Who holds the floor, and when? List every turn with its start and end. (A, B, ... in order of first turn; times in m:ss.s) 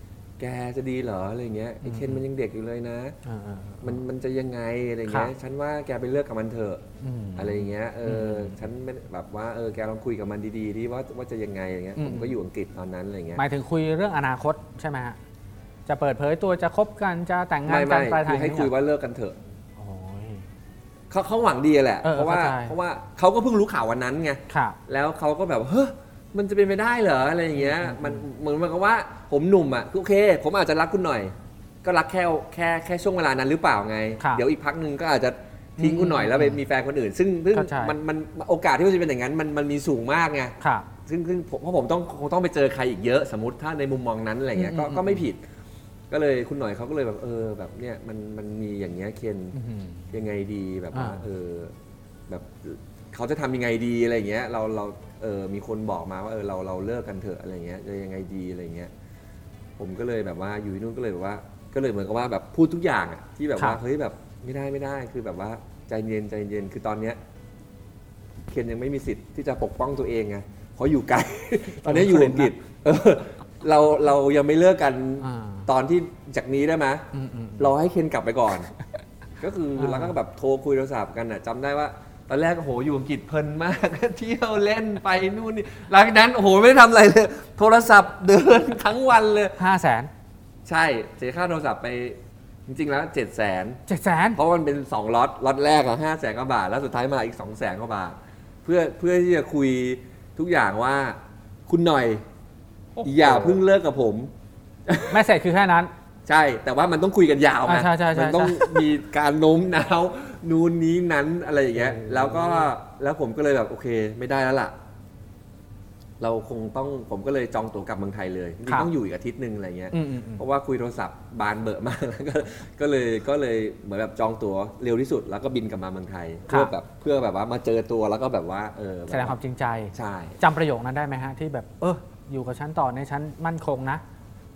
0:00.4-0:03.2 A
0:01.8-0:02.2 B
0:03.2-0:04.0 B
0:03.8-0:06.8 A
0:07.0-0:08.6 B
0:07.4-0:13.4 A
0:12.0-0:12.4 B
0:13.4-0:15.2 B
0:15.9-0:18.7 B
0:17.6-0:19.4 A
0:19.8-0:20.4 B
0:21.1-0:31.3 A
0:22.0-0:22.8 B
0:24.5-0:24.8 B
0:27.6-0:28.2 B
0:31.8-0:45.4 A
0:35.8-0:36.6 B
0:37.5-0:38.0 B
0:40.6-0:40.9 B
0:44.6-0:45.3 B
0:46.1-0:49.6 A
0:49.5-0:50.2 B
0:50.1-0:51.7 A
0:50.9-0:51.2 B
0:52.3-0:58.9 A
0:59.8-1:07.2 A
1:08.5-1:17.0 A
1:11.8-1:12.5 B
1:15.2-1:15.7 B
1:17.1-1:17.8 B
1:17.6-1:18.7 A
1:19.4-1:29.6 A
1:19.8-1:20.1 B
1:29.6-1:30.1 B
1:30.6-1:33.8 A
1:33.9-1:34.4 B
1:34.3-1:42.2 A
1:43.0-1:43.6 B
1:43.0-1:44.3 A
1:44.9-1:45.2 A
1:45.1-1:45.9 B
1:46.2-1:54.7 A
1:47.6-1:48.8 B
1:51.7-1:52.7 B
1:56.2-2:09.4 A
1:59.9-2:00.4 B
2:09.1-2:14.0 B
2:09.9-2:10.4 A